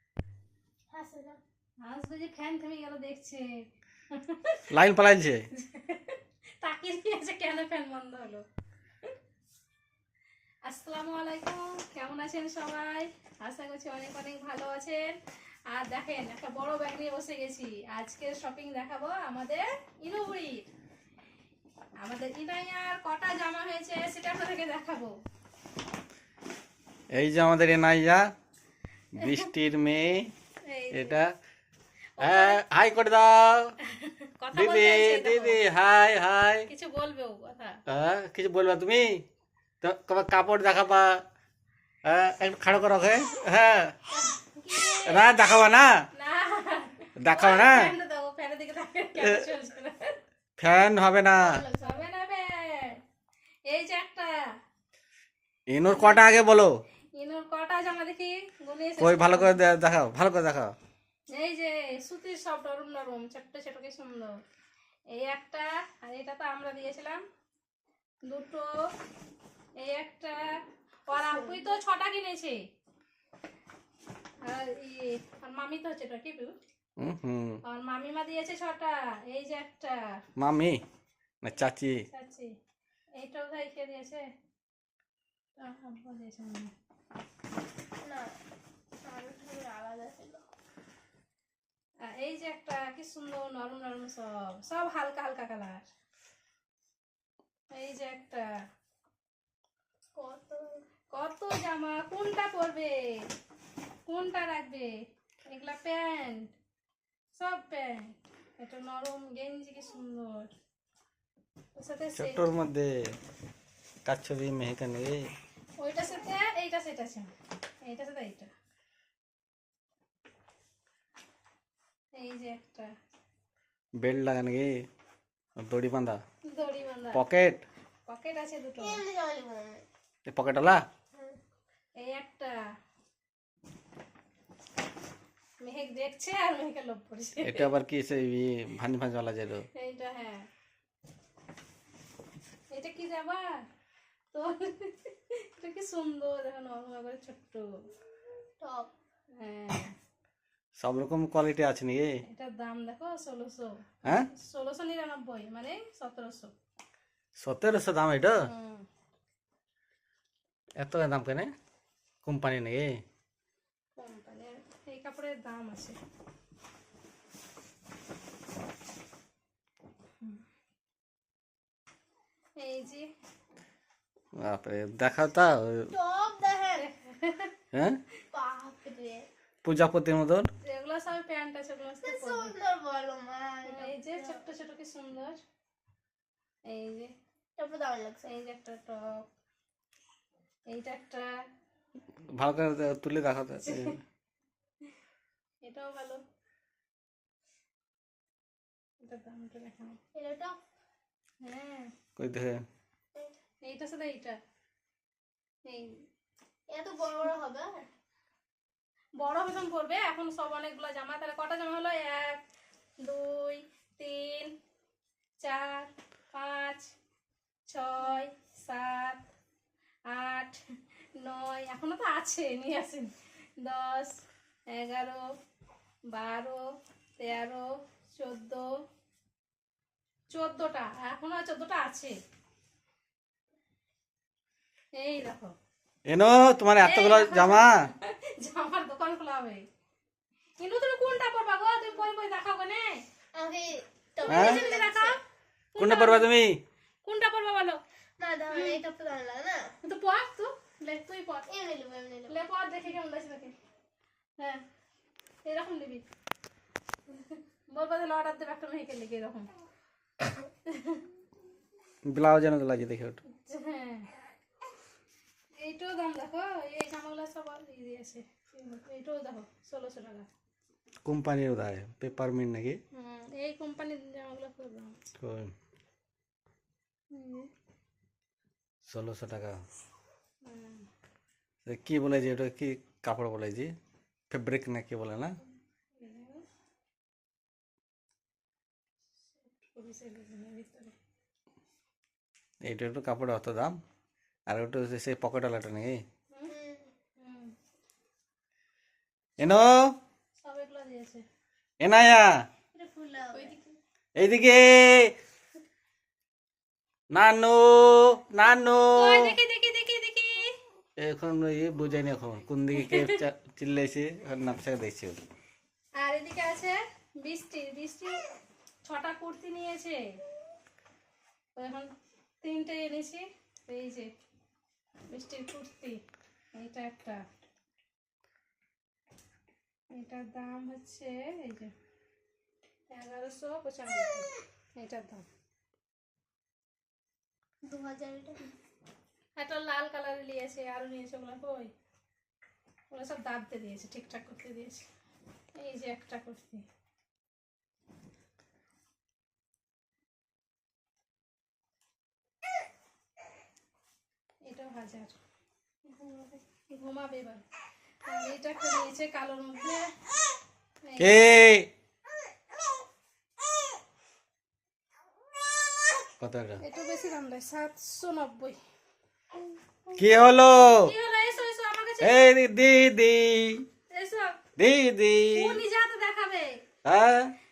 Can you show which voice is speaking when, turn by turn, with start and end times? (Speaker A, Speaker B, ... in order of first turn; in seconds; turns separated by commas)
Speaker A: 0.9-1.4, Speaker B: 1.8-3.5, Speaker B: 4.1-4.6, Speaker C: 4.7-5.4, Speaker B: 5.5-8.4, Speaker B: 10.7-15.2, Speaker B: 15.7-20.7, Speaker B: 22.0-25.1, Speaker C: 27.1-28.2, Speaker C: 29.1-30.3, Speaker B: 29.2-29.5, Speaker B: 30.6-31.2, Speaker C: 30.9-31.3, Speaker B: 32.2-32.6, Speaker C: 32.2-33.7, Speaker B: 33.9-35.6, Speaker C: 34.5-36.7, Speaker B: 36.7-37.8, Speaker C: 37.9-39.2, Speaker C: 39.8-41.2, Speaker C: 42.0-43.9, Speaker B: 44.1-45.1, Speaker A: 44.6-45.2, Speaker C: 45.0-46.0, Speaker B: 46.1-50.2, Speaker C: 47.2-47.9, Speaker C: 49.2-49.4, Speaker C: 50.6-51.6, Speaker A: 51.4-52.0, Speaker B: 51.8-53.0, Speaker B: 53.7-54.4, Speaker C: 55.7-56.7, Speaker B: 55.9-56.2, Speaker B: 57.1-59.6, Speaker C: 59.0-60.7, Speaker B: 61.3-64.3, Speaker B: 65.1-67.2, Speaker B: 68.2-68.9, Speaker B: 69.8-70.4, Speaker B: 71.1-72.6, Speaker A: 71.1-71.7, Speaker B: 74.4-76.5, Speaker C: 77.0-77.6, Speaker B: 77.6-80.2, Speaker C: 80.4-80.8, Speaker C: 81.4-82.0, Speaker B: 82.1-82.5, Speaker B: 83.2-84.2, Speaker B: 85.6-86.7, Speaker A: 88.0-88.3, Speaker A: 89.0-90.4, Speaker B: 92.0-95.8, Speaker B: 97.7-98.4, Speaker A: 100.1-100.8, Speaker B: 101.1-103.2, Speaker B: 104.1-104.9, Speaker B: 105.5-106.5, Speaker B: 107.3-110.5, Speaker B: 111.8-112.4, Speaker C: 112.2-112.9, Speaker C: 114.0-115.2, Speaker B: 115.8-117.3, Speaker B: 117.8-118.5, Speaker B: 122.2-122.9, Speaker C: 124.0-124.7, Speaker C: 125.6-126.2, Speaker B: 126.5-127.2, Speaker C: 127.1-127.6, Speaker B: 128.1-129.0, Speaker A: 128.8-129.8, Speaker C: 130.3-130.8, Speaker A: 131.1-131.4, Speaker B: 131.9-132.5, Speaker B: 135.6-137.7, Speaker C: 137.4-139.6, Speaker B: 139.8-140.5, Speaker B: 142.7-143.4, Speaker B: 144.3-147.7, Speaker A: 148.6-148.9, Speaker B: 149.4-149.9, Speaker C: 150.8-152.1, Speaker B: 152.2-156.5, Speaker C: 157.4-158.4, Speaker B: 158.4-158.8, Speaker C: 160.8-161.5, Speaker C: 162.2-162.9, Speaker B: 164.0-166.0, Speaker B: 172.6-173.1, Speaker C: 174.4-175.9, Speaker A: 175.9-176.8, Speaker B: 176.8-177.5, Speaker C: 177.7-178.0, Speaker A: 178.3-179.3, Speaker C: 179.6-180.5, Speaker B: 180.6-182.5, Speaker A: 182.0-184.4, Speaker B: 183.7-185.4, Speaker B: 186.7-187.1, Speaker A: 187.6-188.3, Speaker B: 188.2-189.3, Speaker B: 190.7-191.3, Speaker C: 192.4-194.0, Speaker B: 193.7-193.9, Speaker B: 195.6-196.2, Speaker B: 199.0-200.0, Speaker A: 200.1-200.6, Speaker B: 201.4-201.9, Speaker C: 202.2-202.6, Speaker B: 203.6-204.4, Speaker B: 205.7-206.1, Speaker A: 206.7-207.7, Speaker B: 209.2-212.4, Speaker B: 213.0-214.5, Speaker B: 215.4-216.9, Speaker B: 217.7-219.2, Speaker B: 220.1-220.6, Speaker B: 221.2-225.2, Speaker B: 226.1-226.6, Speaker B: 227.2-228.7, Speaker B: 230.3-232.1, Speaker B: 234.9-235.5, Speaker C: 236.1-237.7, Speaker B: 236.8-239.6, Speaker B: 240.6-243.0, Speaker A: 243.3-245.2, Speaker B: 244.2-245.2, Speaker C: 244.3-244.6, Speaker B: 245.7-246.3, Speaker C: 245.8-246.6, Speaker B: 247.0-247.8, Speaker A: 248.2-249.6, Speaker B: 249.8-251.5, Speaker A: 251.5-252.3, Speaker B: 252.3-253.5, Speaker B: 255.4-256.0, Speaker B: 257.1-259.5, Speaker B: 260.4-261.1, Speaker C: 262.1-263.2, Speaker B: 263.3-264.1, Speaker B: 265.6-270.3, Speaker C: 271.0-272.8, Speaker B: 272.9-275.0, Speaker C: 275.2-275.5, Speaker B: 277.1-277.5, Speaker C: 278.9-279.6, Speaker B: 280.4-280.9, Speaker C: 281.6-283.7, Speaker C: 284.3-285.4, Speaker B: 286.0-286.4, Speaker B: 289.5-290.9, Speaker C: 292.6-293.7, Speaker C: 294.5-296.0, Speaker A: 296.5-296.9, Speaker B: 297.2-297.5, Speaker C: 299.4-299.7, Speaker B: 300.4-301.2, Speaker C: 301.8-302.3, Speaker A: 302.7-303.5, Speaker B: 303.3-303.8, Speaker C: 304.2-305.1, Speaker C: 307.1-309.4, Speaker B: 308.9-310.5, Speaker C: 311.0-315.2, Speaker B: 312.7-313.2, Speaker B: 316.0-318.2, Speaker B: 318.9-320.0, Speaker B: 321.5-321.9, Speaker B: 322.4-324.1, Speaker B: 325.1-326.0, Speaker B: 326.5-327.2, Speaker B: 329.9-331.7, Speaker B: 332.9-335.2, Speaker A: 337.6-338.4, Speaker B: 339.4-341.7, Speaker B: 342.9-344.9, Speaker B: 345.6-346.6, Speaker B: 354.5-355.2, Speaker A: 355.9-356.4, Speaker B: 356.7-357.4, Speaker B: 358.0-359.9, Speaker B: 360.8-361.2, Speaker C: 361.0-361.7, Speaker C: 366.2-366.6, Speaker B: 366.6-368.6, Speaker C: 369.9-370.9, Speaker B: 370.6-372.3, Speaker C: 372.0-373.6, Speaker B: 373.9-374.4, Speaker C: 374.6-375.6, Speaker B: 375.3-376.6, Speaker C: 376.8-377.3